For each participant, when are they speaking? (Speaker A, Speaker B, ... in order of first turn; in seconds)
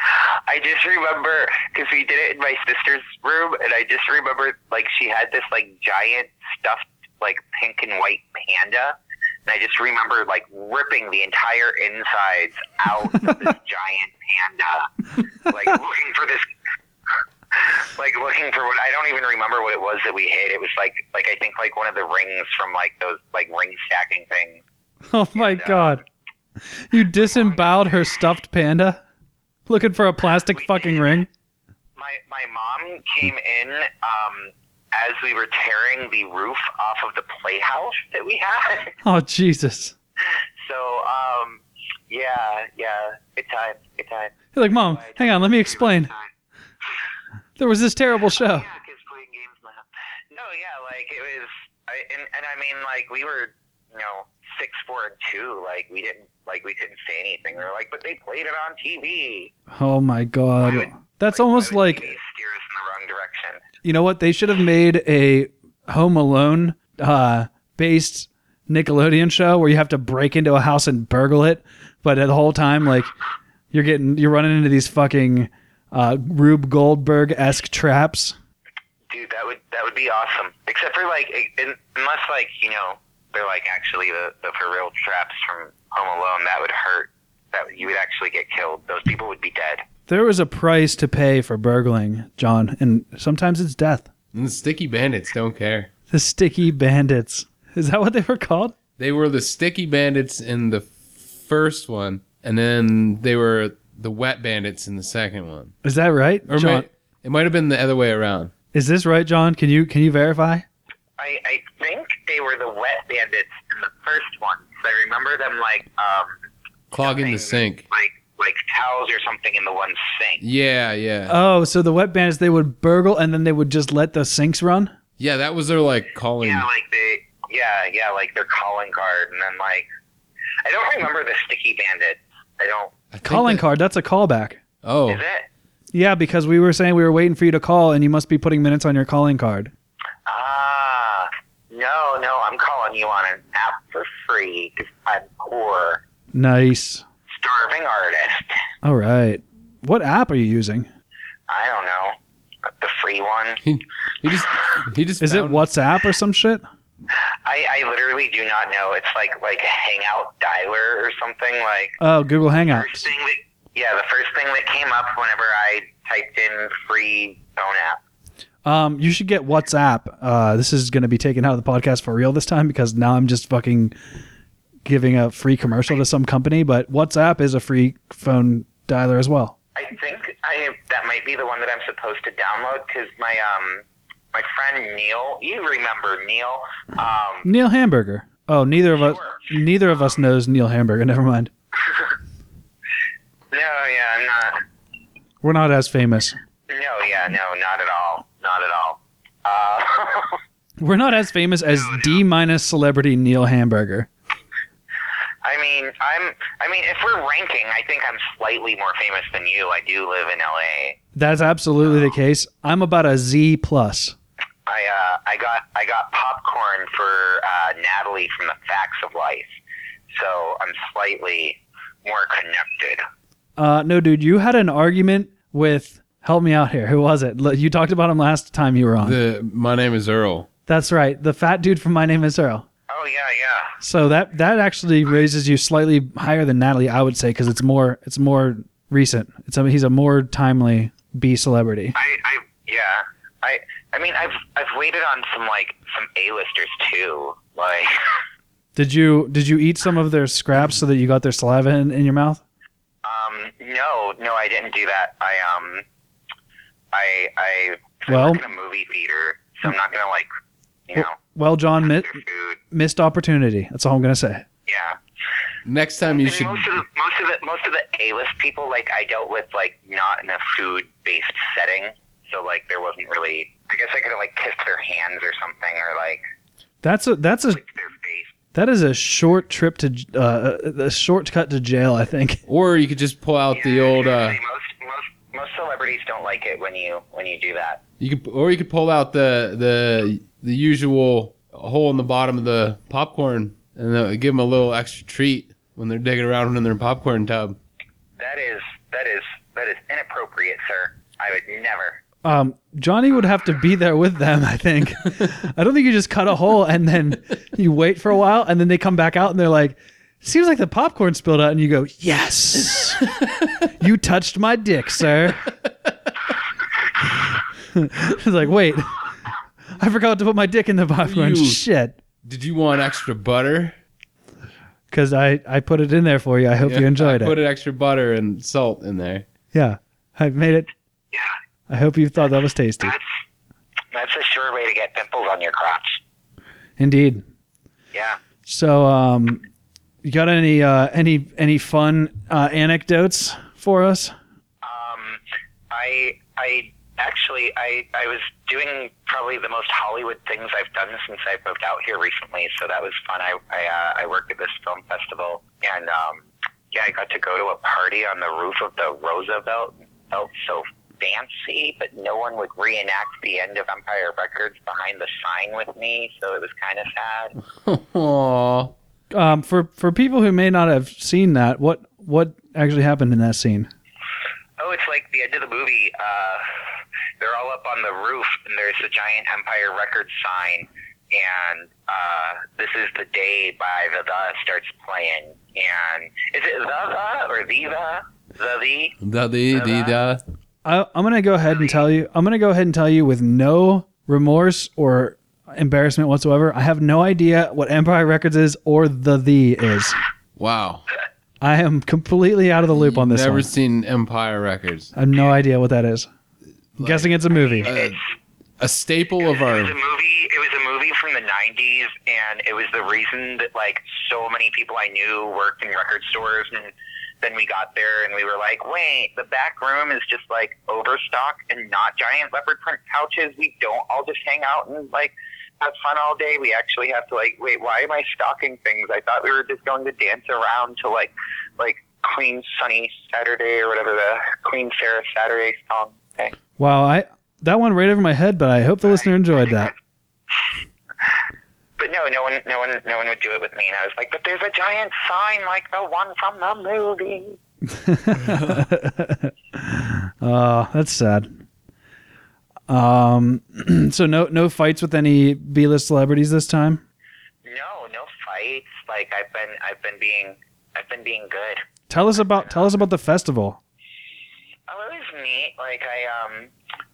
Speaker A: 0.5-14.9, 15.4-16.5, 17.5-24.6, 25.3-26.0, 27.2-27.9, 30.5-31.1, 32.0-38.9, 40.6-46.3, 48.3-59.5, 60.6-63.6, 79.1-89.9, 111.2-116.4, 117.0-120.4, 126.4-129.9, 130.6-132.9, 135.1-135.5, 140.3-146.0, 147.3-148.6, 151.5-152.2, 152.7-153.6, 157.4-162.0, 162.7-168.0, 179.8-187.5, 188.9-189.5, 193.5-194.6, 196.7-200.4, 201.7-202.2, 205.4-211.0, 214.7-219.6, 220.1-223.1, 232.9-233.7, 241.9-248.2, 253.0-255.9, 256.9-260.3, 260.9-261.2, 261.8-262.6, 264.6-265.0, 266.1-276.2, 277.5-278.3, 283.5-287.8, 298.2-302.0, 333.9-336.0, 337.9-338.2, 344.6-367.3, 374.6-376.4, 377.2-388.9, 389.5-389.9, 407.3-408.1, 409.2-436.3, 438.9-439.7, 441.8-447.4, 457.4-462.8, 464.7-466.5
Speaker B: 25.1-26.0, 26.9-29.0, 29.7-31.3, 39.0-39.9, 44.5-46.1, 47.6-48.6, 59.7-62.1, 63.8-73.1, 73.7-78.4, 90.1-94.1, 96.1-98.7, 105.8-106.9, 108.7-110.6, 121.3-124.9, 133.2-134.6, 135.9-139.7, 146.3-147.1, 148.8-150.9, 155.2-156.6, 162.0-163.1, 168.6-173.9, 174.8-179.6, 187.4-191.5, 195.4-196.4, 200.8-204.1, 211.1-214.2, 223.6-229.2, 230.7-232.7, 233.8-241.9, 248.7-252.4, 258.1-258.4, 260.9-262.1, 262.7-264.4, 276.8-277.6, 278.5-282.4, 302.2-313.1, 313.8-315.5, 317.7-319.0, 319.8-322.0, 324.9-327.4, 329.5-330.7, 331.7-332.9, 336.8-337.2, 338.4-339.4, 340.0-344.1, 369.1-373.7, 390.6-400.0, 401.4-403.5, 404.9-406.1, 406.8-407.7, 436.6-439.7, 447.7-451.4, 452.7-456.8, 461.9-463.6
Speaker C: 94.3-95.9, 99.0-105.7, 106.5-108.5, 116.9-117.8, 120.4-121.3, 125.2-126.7, 133.1-133.6, 134.8-135.2, 153.6-155.6, 229.0-230.5, 265.6-266.7, 282.5-284.4, 288.0-297.6, 321.0-321.6, 322.2-323.8, 326.6-329.3, 367.6-368.7, 389.0-390.2, 400.4-400.9, 402.7-404.9, 406.8-407.1, 407.6-408.0, 408.6-409.7